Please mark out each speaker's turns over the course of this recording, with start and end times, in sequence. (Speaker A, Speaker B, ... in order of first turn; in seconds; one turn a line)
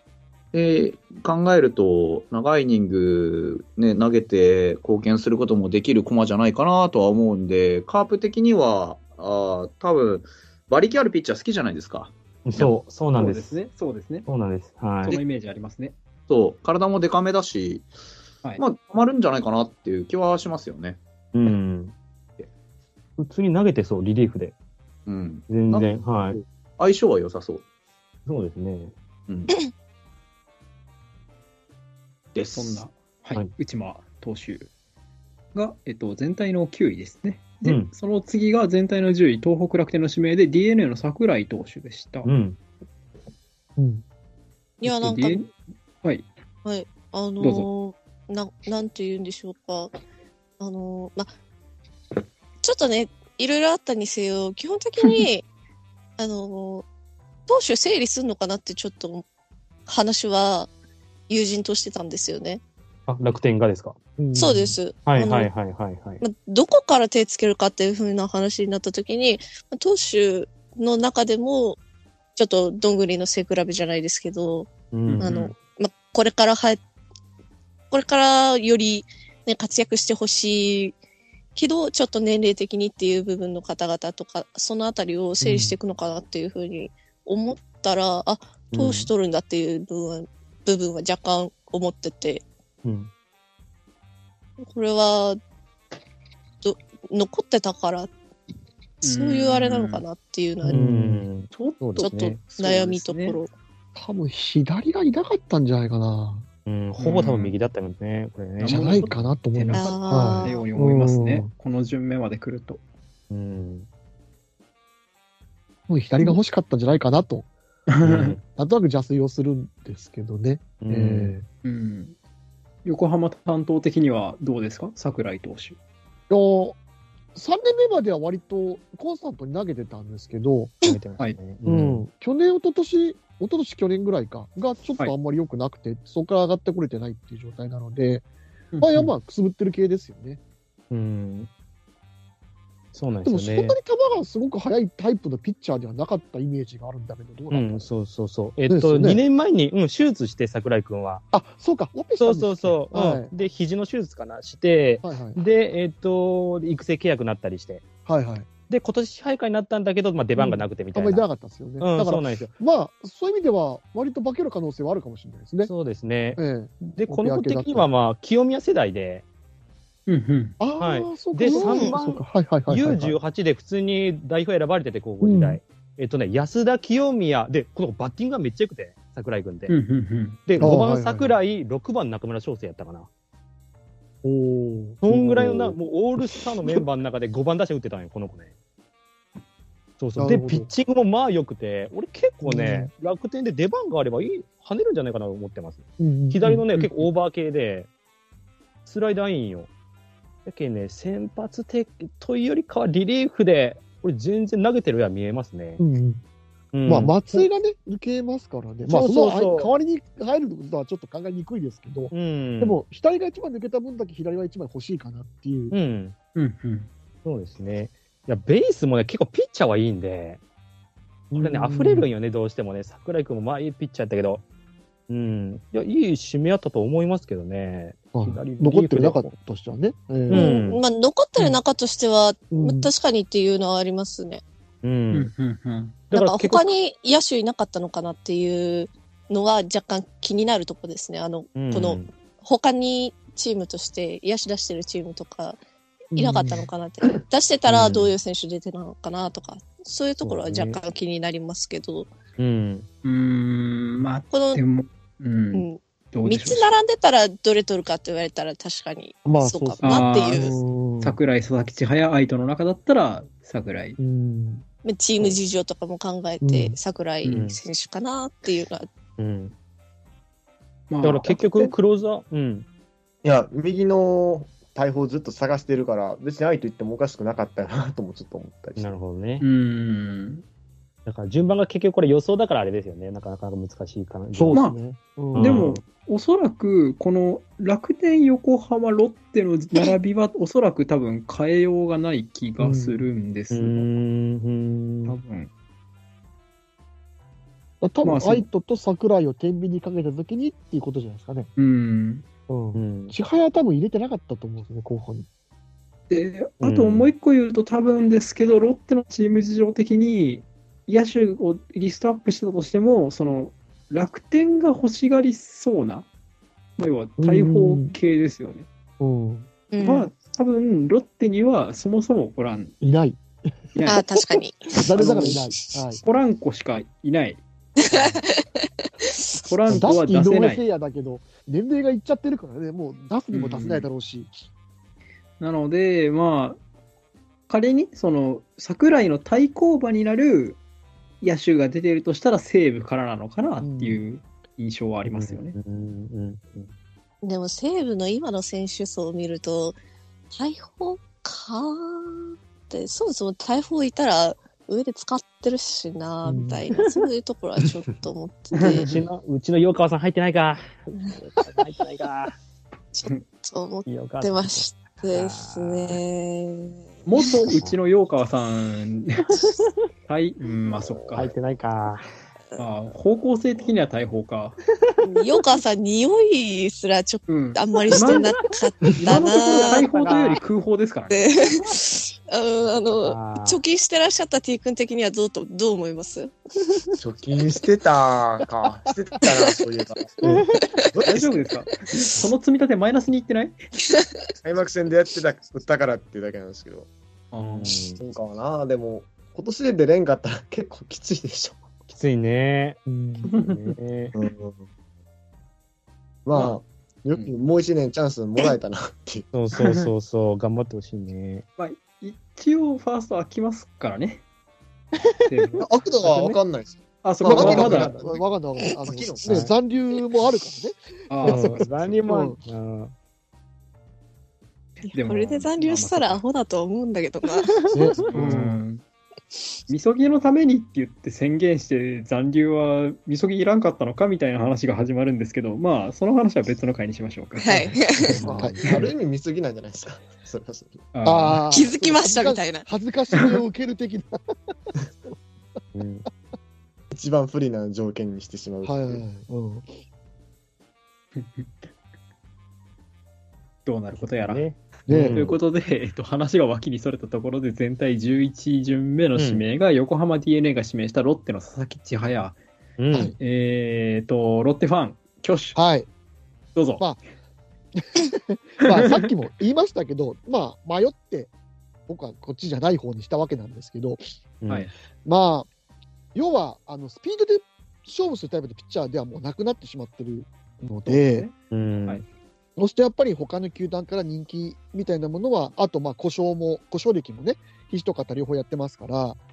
Speaker A: 0.5-12.8
Speaker B: 12.4-13.6
Speaker C: 13.1-14.3
Speaker B: 14.3-15.2
Speaker C: 15.0-15.9
Speaker A: 16.3-17.9
Speaker A: 18.6-21.0
Speaker B: 21.3-21.9
Speaker B: 23.2-24.6
Speaker A: 25.1-25.9
Speaker B: 25.5-26.4
Speaker A: 26.8-27.6
Speaker B: 28.3-28.9
Speaker A: 32.4-32.8
Speaker C: 32.5-34.7
Speaker C: 35.5-42.3
Speaker B: 37.6-37.9
Speaker B: 42.2-42.6
Speaker D: 43.8-44.0
Speaker E: 44.8-45.4
Speaker C: 44.9-45.5
Speaker E: 46.6-49.9
Speaker C: 47.4-47.7
Speaker E: 50.6-51.3
Speaker E: 52.6-55.5
Speaker E: 56.2-56.9
Speaker E: 57.5-59.2
Speaker E: 59.9-60.7
Speaker E: 61.3-62.6
Speaker B: 63.1-64.0
Speaker D: 64.2-64.8
Speaker E: 64.4-65.5
Speaker B: 65.0-66.2
Speaker E: 66.2-71.8
Speaker E: 72.4-74.7
Speaker B: 74.9-75.6
Speaker E: 75.2-76.8
Speaker E: 77.9-81.0
Speaker E: 81.5-92.5
Speaker D: 85.4-85.8
Speaker B: 88.7-89.1
Speaker B: 92.8-93.1
Speaker E: 94.6-95.4
Speaker E: 96.6-98.1
Speaker C: 99.0-100.0
Speaker E: 99.0-100.8
Speaker D: 100.6-101.3
Speaker B: 100.7-102.4
Speaker C: 101.5-103.4
Speaker E: 102.0-103.5
Speaker D: 104.0-106.5
Speaker B: 106.7-109.2
Speaker C: 107.0-107.5
Speaker D: 108.6-111.5
Speaker C: 108.6-112.8
Speaker E: 109.7-110.6
Speaker B: 113.3-113.9
Speaker D: 115.9-117.5
Speaker C: 117.9-118.3
Speaker B: 118.0-118.4
Speaker D: 118.5-121.5
Speaker B: 120.8-121.4
Speaker C: 121.6-122.2
Speaker C: 122.8-125.8
Speaker D: 126.3-126.8
Speaker D: 127.3-130.8
Speaker B: 130.8-132.1
Speaker D: 131.6-138.2
Speaker C: 138.7-139.1
Speaker D: 138.8-140.4
Speaker B: 140.9-141.5
Speaker B: 142.9-143.8
Speaker D: 143.2-147.9
Speaker B: 147.5-151.3
Speaker D: 148.7-149.2
Speaker D: 151.3-153.3
Speaker B: 152.2-157.8
Speaker D: 155.0-155.4
Speaker D: 158.1-158.5
Speaker B: 158.7-161.3
Speaker D: 160.4-165.7
Speaker B: 161.8-162.5
Speaker B: 165.7-169.2
Speaker D: 166.4-167.9
Speaker C: 170.1-170.6
Speaker D: 170.6-173.2
Speaker B: 170.8-179.8
Speaker E: 171.5-171.9
Speaker D: 175.2-175.6
Speaker C: 179.7-180.4
Speaker B: 180.5-183.1
Speaker D: 180.6-181.4
Speaker D: 184.2-185.8
Speaker B: 185.0-188.5
Speaker D: 186.3-186.8
Speaker B: 190.0-197.9
Speaker D: 190.2-190.7
Speaker D: 192.4-192.9
Speaker D: 196.0-196.6
Speaker C: 196.7-197.1
Speaker B: 198.8-199.7
Speaker B: 200.4-205.8
Speaker D: 205.8-206.2
Speaker B: 206.7-207.5
Speaker D: 206.9-215.8
Speaker B: 208.9-209.7
Speaker B: 212.1-212.8
Speaker B: 215.7-216.2
Speaker C: 216.4-216.9
Speaker B: 217.2-220.4
Speaker D: 221.3-222.1
Speaker B: 221.4-224.4
Speaker B: 225.1-229.3
Speaker D: 228.1-230.5
Speaker B: 230.3-230.8
Speaker E: 230.3-234.4
Speaker D: 232.5-232.9
Speaker B: 234.8-235.3
Speaker C: 235.1-236.0
Speaker B: 236.1-236.7
Speaker E: 236.1-245.6
Speaker B: 241.6-242.1
Speaker D: 246.1-246.6
Speaker E: 246.2-252.1
Speaker B: 247.7-248.1
Speaker B: 250.2-250.8
Speaker B: 252.4-252.9
Speaker C: 253.0-256.7
Speaker E: 254.3-254.6
Speaker E: 255.5-260.6
Speaker D: 259.2-261.2
Speaker C: 259.8-264.0
Speaker D: 264.0-264.6
Speaker E: 264.9-268.9
Speaker D: 266.4-266.8
Speaker C: 267.2-267.5
Speaker B: 267.3-267.6
Speaker B: 269.2-269.6
Speaker C: 270.9-271.7
Speaker B: 271.0-272.7
Speaker F: 273.2-278.9
Speaker B: 278.8-279.5
Speaker C: 279.4-280.4
Speaker B: 281.1-284.7
Speaker D: 284.3-285.6
Speaker C: 284.5-284.8
Speaker B: 285.3-285.9
Speaker C: 285.4-293.9
Speaker D: 292.6-293.1
Speaker B: 293.5-295.2
Speaker C: 295.1-295.5
Speaker D: 297.8-301.5
Speaker C: 298.0-298.5
Speaker C: 301.6-302.2
Speaker D: 302.5-305.3
Speaker B: 302.7-303.1
Speaker C: 306.1-316.1
Speaker B: 306.6-307.1
Speaker C: 316.8-318.7
Speaker D: 317.2-317.9
Speaker D: 319.0-319.5
Speaker E: 319.7-320.1
Speaker C: 319.8-322.7
Speaker D: 322.8-323.6
Speaker C: 323.8-324.0
Speaker E: 323.9-325.4
Speaker D: 324.3-326.0
Speaker C: 325.0-325.4
Speaker C: 326.0-328.0
Speaker E: 327.9-328.4
Speaker E: 329.0-329.5
Speaker C: 329.5-330.6
Speaker D: 329.7-334.4
Speaker C: 333.3-333.9
Speaker C: 335.4-336.6
Speaker C: 337.5-340.6
Speaker C: 341.2-345.6
Speaker D: 343.6-344.0
Speaker B: 345.1-346.7
Speaker E: 347.2-349.8
Speaker E: 350.3-358.9
Speaker D: 356.2-356.6
Speaker B: 358.7-362.3
Speaker E: 362.9-367.3
Speaker B: 363.9-366.0
Speaker C: 367.1-369.3
Speaker B: 367.5-367.8
Speaker C: 370.1-371.3
Speaker F: 370.8-371.4
Speaker B: 371.1-372.1
Speaker C: 372.6-374.6
Speaker E: 375.0-379.8
Speaker C: 377.3-378.3
Speaker C: 379.0-381.2
Speaker B: 379.8-380.4
Speaker E: 381.1-386.3
Speaker B: 381.4-381.7
Speaker B: 382.6-383.6
Speaker F: 387.0-390.2
Speaker B: 390.2-390.5
Speaker F: 390.9-391.4
Speaker C: 391.1-393.6
Speaker F: 394.4-396.9
Speaker C: 397.3-397.8
Speaker B: 397.4-398.0
Speaker F: 398.0-401.6
Speaker B: 401.9-402.8
Speaker D: 402.9-403.3
Speaker C: 403.3-403.8
Speaker B: 403.4-404.1
Speaker F: 404.1-404.6
Speaker F: 406.2-409.3
Speaker B: 409.3-411.4
Speaker C: 411.6-414.2
Speaker C: 415.3-415.6
Speaker F: 415.6-419.5
Speaker B: 416.0-416.4
Speaker C: 417.0-417.9
Speaker D: 417.2-422.4
Speaker B: 417.4-417.8
Speaker B: 419.2-419.5
Speaker C: 421.1-422.0
Speaker B: 421.2-422.9
Speaker E: 424.9-427.5
Speaker C: 424.9-426.2
Speaker D: 427.7-428.6
Speaker B: 428.0-428.4
Speaker C: 428.1-428.8
Speaker C: 429.7-437.7
Speaker E: 437.4-438.1
Speaker B: 438.2-438.6
Speaker F: 438.2-440.8
Speaker D: 438.2-438.6
Speaker C: 440.9-441.4
Speaker D: 441.1-444.2
Speaker E: 441.5-442.7
Speaker B: 445.7-446.1
Speaker F: 446.9-449.1
Speaker D: 448.6-449.6
Speaker C: 451.2-451.5
Speaker C: 453.7-454.4
Speaker B: 454.0-455.4
Speaker D: 454.9-455.4
Speaker C: 455.1-462.4
Speaker B: 459.1-459.4
Speaker B: 462.8-463.1
Speaker C: 463.2-465.6
Speaker D: 465.6-465.9
Speaker C: 466.6-467.0
Speaker D: 467.8-471.3
Speaker C: 468.7-469.1
Speaker D: 471.9-474.0
Speaker B: 474.4-474.7
Speaker D: 475.0-475.5
Speaker D: 476.1-481.3
Speaker C: 480.9-481.4
Speaker B: 481.5-482.0
Speaker D: 482.6-489.2